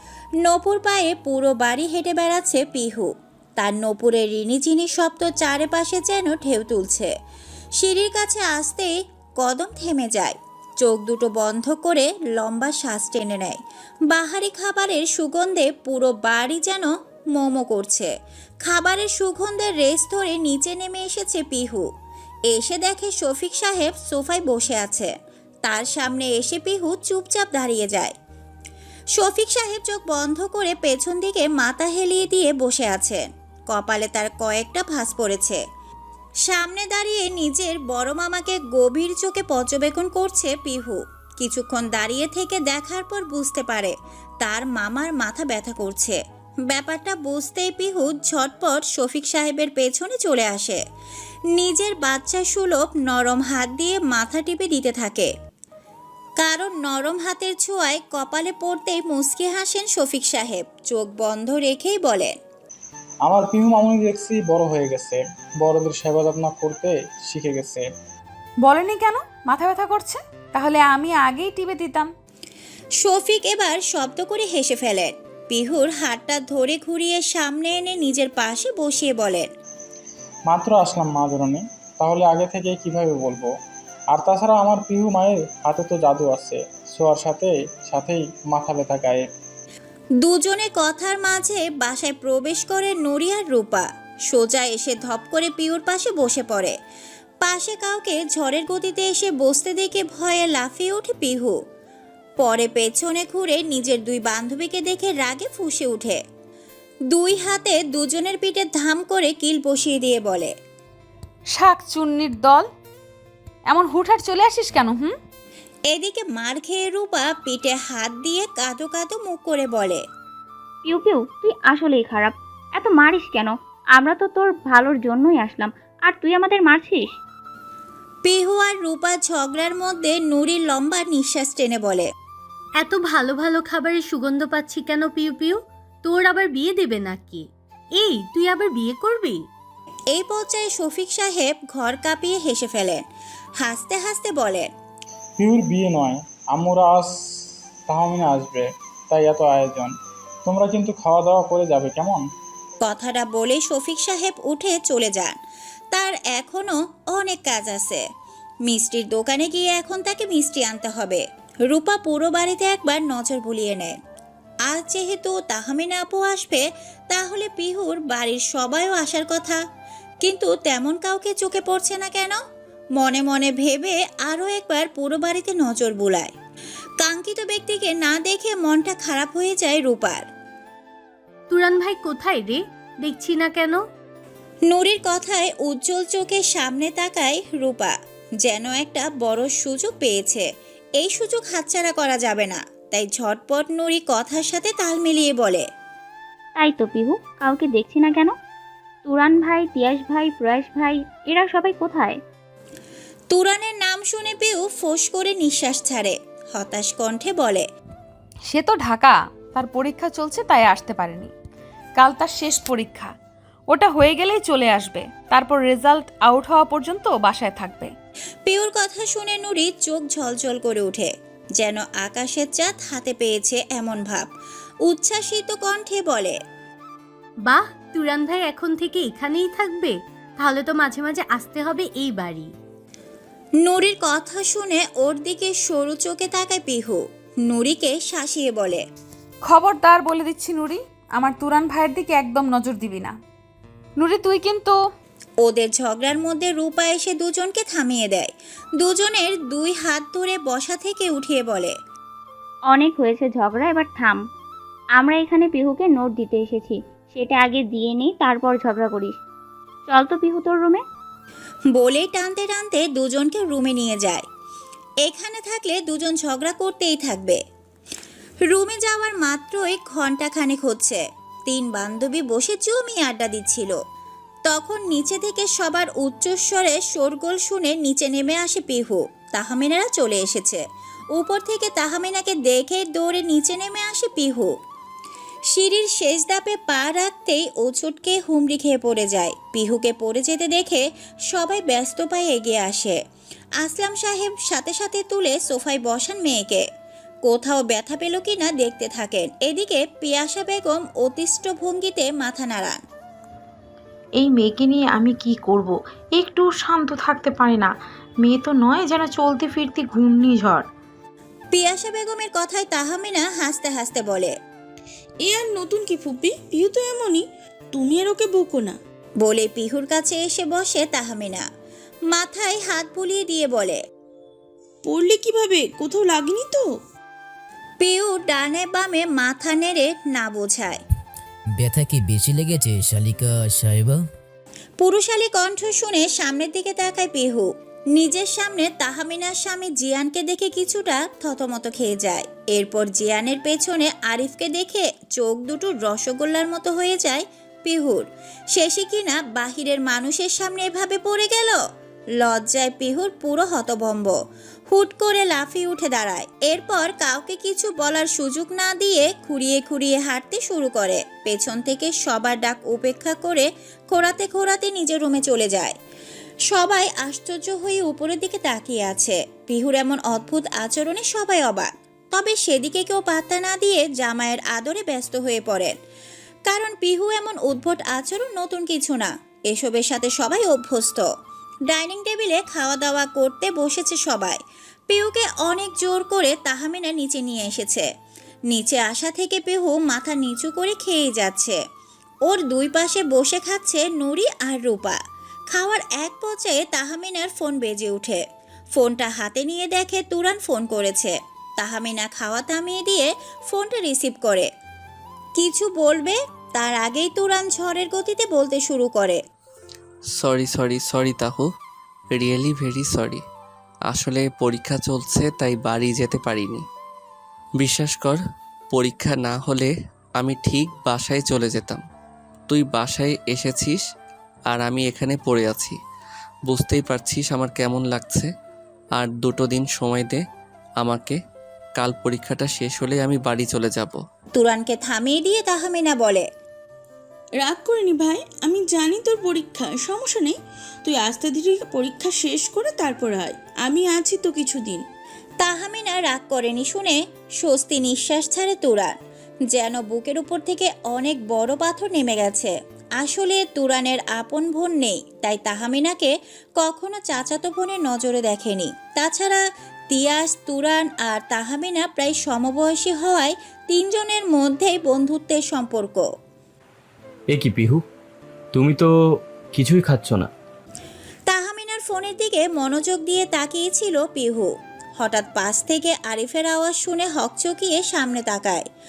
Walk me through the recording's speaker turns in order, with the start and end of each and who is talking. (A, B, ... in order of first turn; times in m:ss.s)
0:00.4-0:07.1 A
0:07.8-0:13.6 A
0:14.1-0:18.1 A
0:18.6-0:21.8 A
0:22.5-0:25.1 A
0:25.6-0:28.1 A
0:29.2-0:35.6 A
0:36.5-0:46.2 A
0:46.7-0:50.8 A
0:51.6-0:55.3 A
0:56.4-1:02.4 A
1:03.2-1:07.8 B
1:08.6-1:12.1 C
1:13.0-1:19.5 A
1:20.5-1:23.5 B
1:24.1-1:29.2 B
1:30.2-1:36.7 A
1:37.4-1:41.6 A
1:42.4-1:46.2 A
1:47.1-1:50.5 A
1:51.5-1:52.7 C
1:53.7-1:55.1 C
1:55.9-2:00.0 A
2:00.8-2:07.2 D
2:08.2-2:12.1 A
2:12.8-2:19.4 E
2:20.1-2:23.0 A
2:23.6-2:24.7 A
2:25.4-2:27.1 B
2:27.9-2:29.9 B
2:30.5-2:32.2 B
2:32.8-2:35.4 A
2:35.9-2:38.0 A
2:38.7-2:44.0 A
2:44.7-2:49.6 A
2:50.2-2:52.4 A
2:53.0-2:56.3 A
2:57.0-3:00.2 A
3:01.5-3:03.8 E
3:04.7-3:07.9 A
3:08.4-3:10.4 A
3:11.0-3:15.6 A
3:16.6-3:18.3 D
3:19.1-3:22.2 D
3:23.3-3:27.6 A
3:28.4-3:31.3 C
3:32.0-3:33.1 C
3:33.7-3:37.9 C
3:38.5-3:44.3 A
3:44.9-3:46.4 A
3:47.4-3:52.5 E
3:53.6-3:58.8 A
3:59.4-4:03.1 C
4:04.0-4:04.7 C
4:05.4-4:11.7 A
4:12.7-4:14.2 D
4:15.0-4:19.2 D
4:19.9-4:20.8 D
4:21.8-4:24.2 A
4:25.0-4:27.4 A
4:28.5-4:33.8 A
4:34.5-4:40.6 A
4:41.1-4:44.5 A
4:45.5-4:53.0 A
4:53.6-4:56.6 A
4:57.2-5:02.8 A
5:04.2-5:10.7 F
5:11.5-5:14.3 A
5:15.3-5:17.2 G
5:17.8-5:18.7 G
5:19.2-5:21.4 A
5:22.1-5:23.8 A
5:24.9-5:26.6 G
5:27.8-5:30.8 A
5:31.5-5:34.1 H
5:34.8-5:51.6 A
5:52.2-5:54.2 A
5:54.7-6:05.8 A
6:06.5-6:15.7 A
6:16.5-6:21.1 A
6:21.7-6:27.9 A
6:28.5-6:31.6 A
6:32.3-6:35.0 A
6:35.5-6:38.2 A
6:38.8-6:44.5 A
6:45.4-6:49.2 A
6:50.2-6:51.5 I
6:52.2-6:53.2 I
6:53.9-6:56.6 I
6:57.6-6:58.2 I
6:58.7-7:01.8 I
7:02.5-7:03.8 I
7:04.5-7:05.8 I
7:06.5-7:08.3 I
7:09.0-7:10.2 I
7:10.8-7:11.2 I
7:11.8-7:14.0 I
7:14.4-7:16.2 A
7:17.5-7:20.4 G
7:20.9-7:24.8 G
7:25.4-7:28.9 A
7:29.5-7:46.1 A
7:47.3-7:47.9 J
7:48.5-7:50.3 J
7:51.3-7:58.6 A